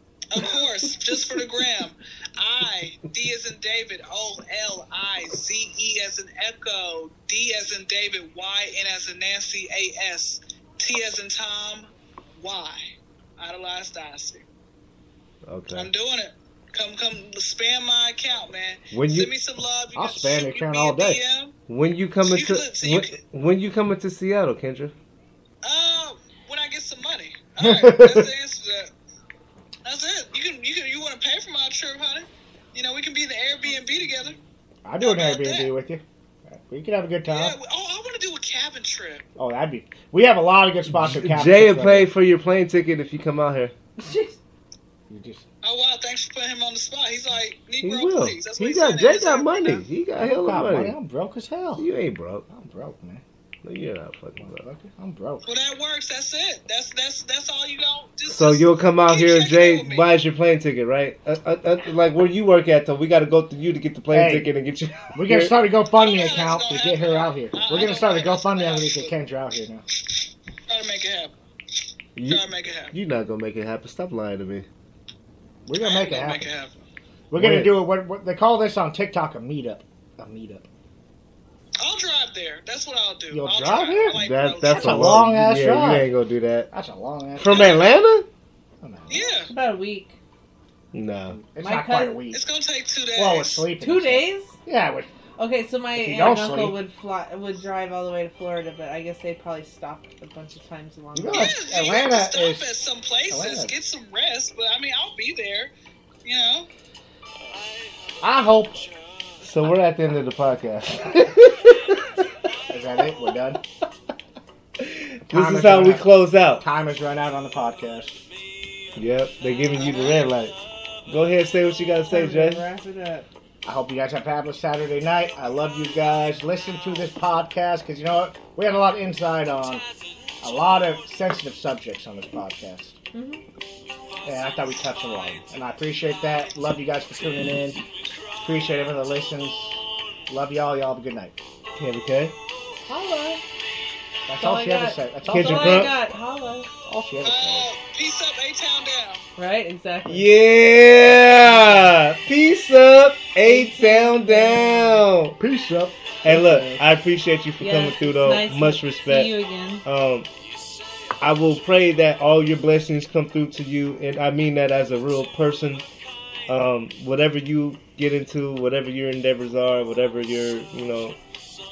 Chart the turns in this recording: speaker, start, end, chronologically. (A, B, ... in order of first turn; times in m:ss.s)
0:00.3-0:14.4 A
0:00.4-0:01.7 B
0:15.4-0:15.9 C
0:15.7-0:21.6 A
0:18.9-0:19.3 C
0:19.9-0:21.2 D
0:21.7-0:24.9 C
0:22.2-0:23.2 A
0:25.6-0:28.9 A
0:27.6-0:28.3 D
0:29.8-0:34.4 A
0:34.8-0:37.6 D
0:35.0-0:35.7 A
0:37.3-0:39.2 A
0:39.4-0:42.1 D
0:40.9-0:43.7 C
0:44.0-0:44.4 B
0:45.1-0:45.4 D
0:45.6-0:49.8 A
0:47.8-0:50.9 C
0:50.2-0:51.8 D
0:51.8-0:52.4 C
0:52.5-0:53.2 D
0:53.6-0:54.7 C
0:54.4-0:55.4 D
0:55.4-1:00.1 A
0:58.3-1:05.5 C
1:04.1-1:04.5 D
1:05.1-1:09.8 D
1:05.9-1:09.1 A
1:10.7-1:11.3 A
1:12.2-1:14.6 C
1:12.2-1:12.9 A
1:15.7-1:16.5 D
1:15.8-1:16.7 A
1:17.3-1:20.7 D
1:17.3-1:17.8 C
1:21.8-1:25.1 A
1:23.3-1:26.1 D
1:24.1-1:26.7 C
1:26.7-1:27.7 D
1:27.4-1:28.3 C
1:27.5-1:27.8 A
1:28.8-1:29.4 D
1:29.1-1:29.5 A
1:29.5-1:30.2 B
1:30.9-1:31.4 C
1:31.4-1:32.4 D
1:31.6-1:32.2 B
1:32.3-1:33.7 A
1:33.2-1:35.1 D
1:33.8-1:34.6 B
1:35.4-1:41.5 B
1:35.9-1:36.8 D
1:41.1-1:42.6 D
1:41.3-1:45.7 A
1:43.3-1:43.7 D
1:46.2-1:46.7 A
1:48.2-1:48.9 D
1:49.4-1:52.2 C
1:52.7-1:53.6 D
1:54.8-1:56.6 C
1:55.3-1:58.2 D
1:59.0-2:00.5 C
1:59.8-2:00.2 A
2:01.1-2:02.6 C
2:02.1-2:03.3 B
2:03.6-2:09.8 D
2:10.4-2:13.0 D
2:13.1-2:13.4 B
2:14.2-2:17.8 D
2:18.4-2:21.4 D
2:21.8-2:22.3 C
2:22.9-2:23.4 B
2:24.3-2:25.9 D
2:24.4-2:26.8 B
2:25.3-2:25.9 C
2:26.8-2:27.7 D
2:27.2-2:29.2 A
2:29.4-2:30.3 B
2:30.0-2:35.4 C
2:33.4-2:35.0 B
2:35.4-2:36.8 D
2:36.2-2:40.3 C
2:37.6-2:39.8 B
2:41.2-2:45.8 C
2:46.5-2:51.2 C